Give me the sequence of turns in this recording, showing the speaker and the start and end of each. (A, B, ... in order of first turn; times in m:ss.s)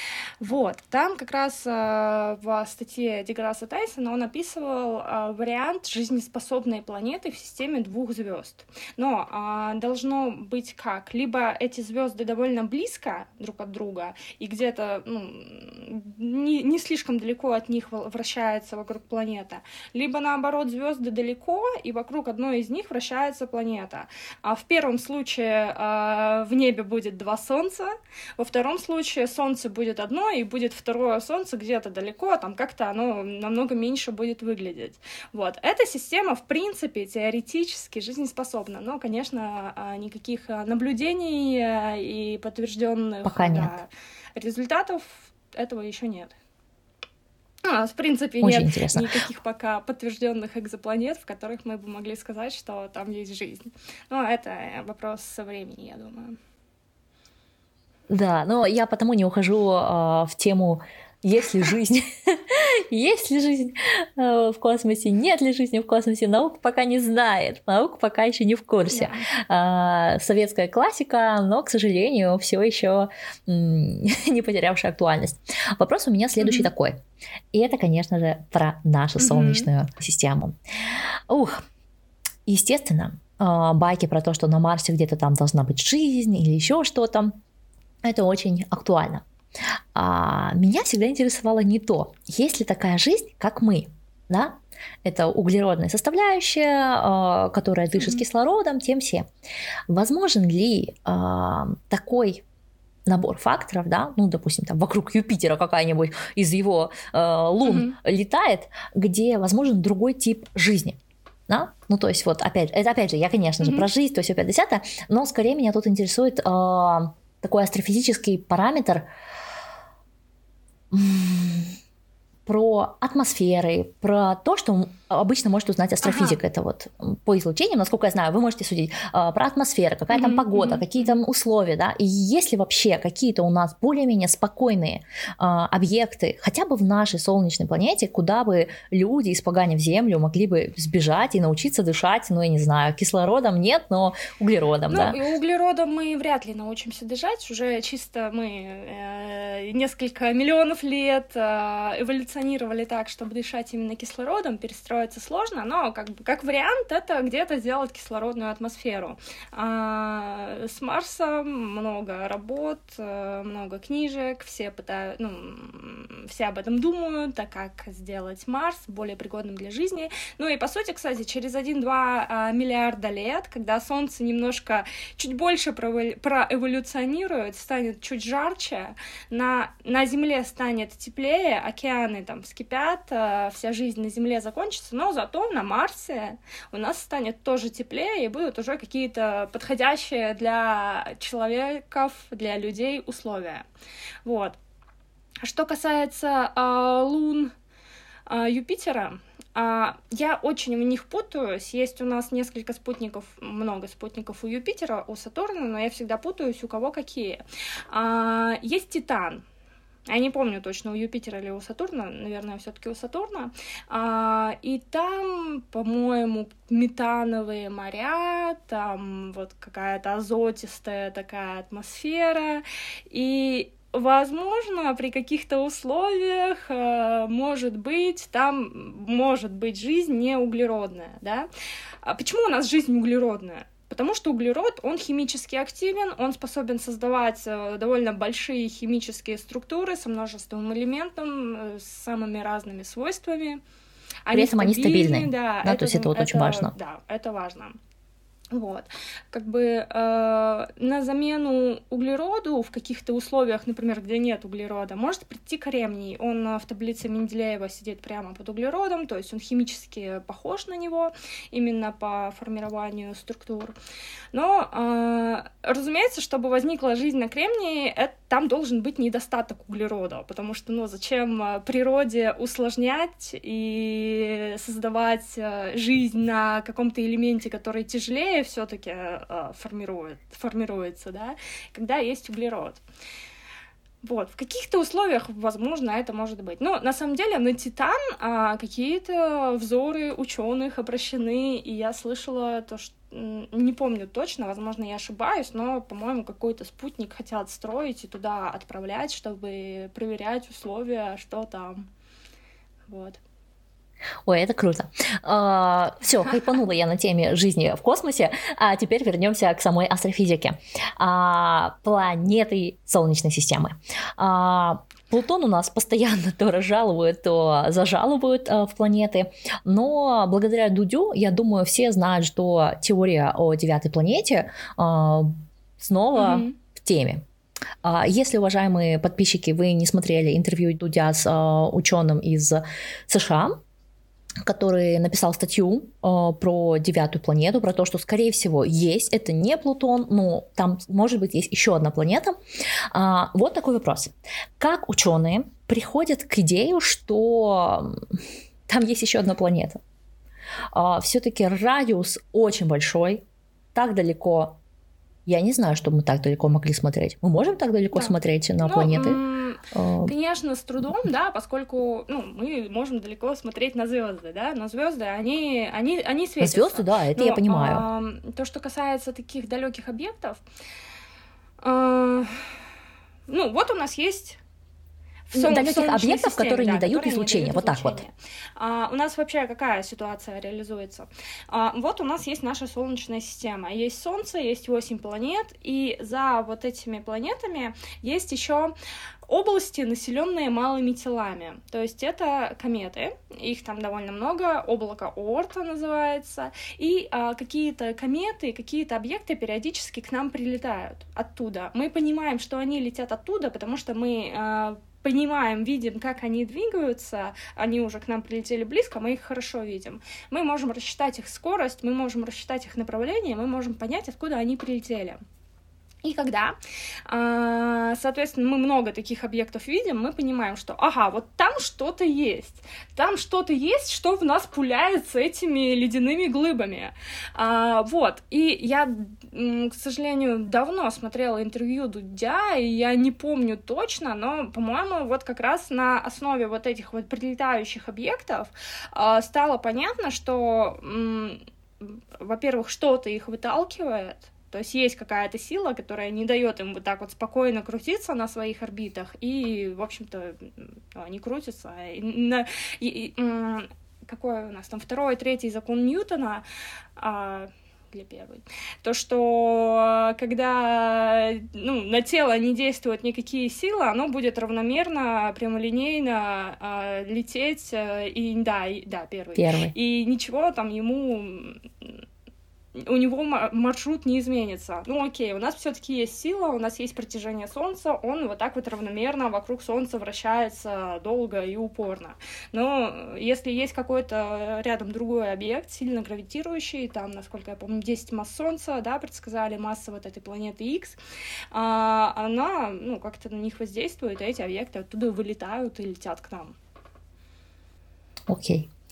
0:00.4-0:46.3 A
0:43.2-0:43.8 B
0:47.6-0:56.4 A
0:48.4-0:49.1 B
0:58.1-1:21.6 B
1:08.9-1:09.2 A
1:16.4-1:16.7 A
1:19.2-1:19.7 A
1:22.5-1:27.4 B
1:28.0-1:29.2 B
1:29.9-1:39.3 B
1:38.0-1:38.2 A
1:39.9-1:42.4 B
1:43.1-1:59.1 B
1:47.6-1:48.0 A
1:53.6-1:53.9 A
2:00.9-2:01.8 B
2:02.5-2:25.2 B
2:06.0-2:06.4 A
2:10.1-2:11.2 A
2:24.9-3:13.6 A
3:14.2-3:14.6 A
3:15.4-3:17.5 A
3:18.3-3:29.4 A
3:30.1-3:51.5 A
3:52.0-4:03.6 A
4:04.3-4:07.8 A
4:04.3-4:06.7 B
4:08.5-4:23.8 A
4:24.3-4:42.8 A
4:44.0-5:01.9 A
5:02.9-5:03.2 A
5:04.3-5:27.2 B
5:26.2-5:26.6 A
5:27.8-5:33.6 B
5:34.4-5:42.4 B
5:42.9-5:49.8 B
5:50.7-5:53.2 B
5:53.8-5:54.6 B
5:55.3-6:00.1 B
5:57.9-6:10.4 A
6:06.4-6:07.9 B
6:11.6-6:12.4 A
6:13.3-6:14.4 A
6:15.3-6:28.7 A
6:15.3-6:18.0 B
6:29.3-6:55.2 A
6:56.0-6:56.6 A
6:57.1-7:36.4 A
7:37.0-7:52.0 A
7:49.4-7:49.8 B
7:52.8-8:11.0 A
8:11.5-8:16.6 A
8:18.3-8:18.7 B